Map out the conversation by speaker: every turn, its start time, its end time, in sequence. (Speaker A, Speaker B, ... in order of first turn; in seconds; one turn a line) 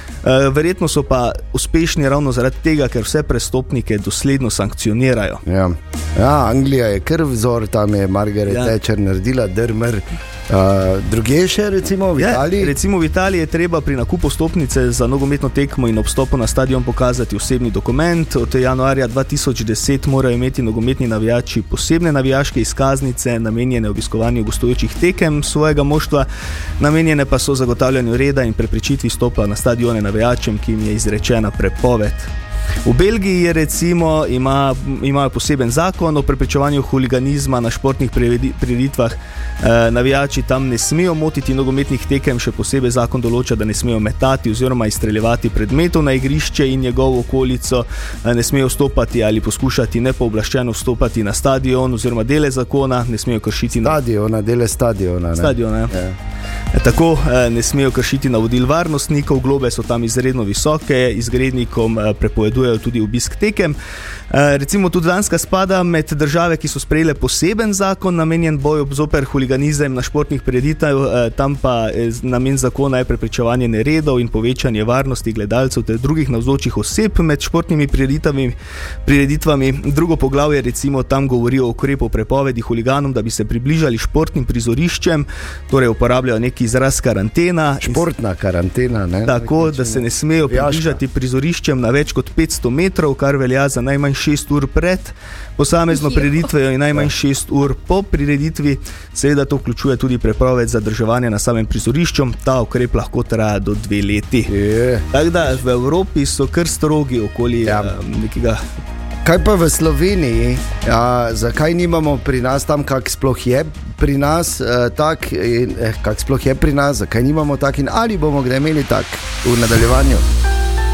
Speaker A: 0.2-5.4
Speaker B: 5.5-12.8
Speaker A: 8.5-8.8
Speaker A: 12.2-26.3
Speaker A: 26.8-32.3
Speaker A: 32.9-54.0
Speaker B: 53.8-56.2
Speaker A: 55.4-56.0
Speaker A: 56.7-63.8
Speaker A: 64.3-88.0
Speaker B: 87.8-91.0
Speaker A: 89.3-104.5
Speaker B: 104.5-105.0
Speaker A: 105.1-108.6
Speaker B: 107.7-107.9
Speaker B: 109.2-120.3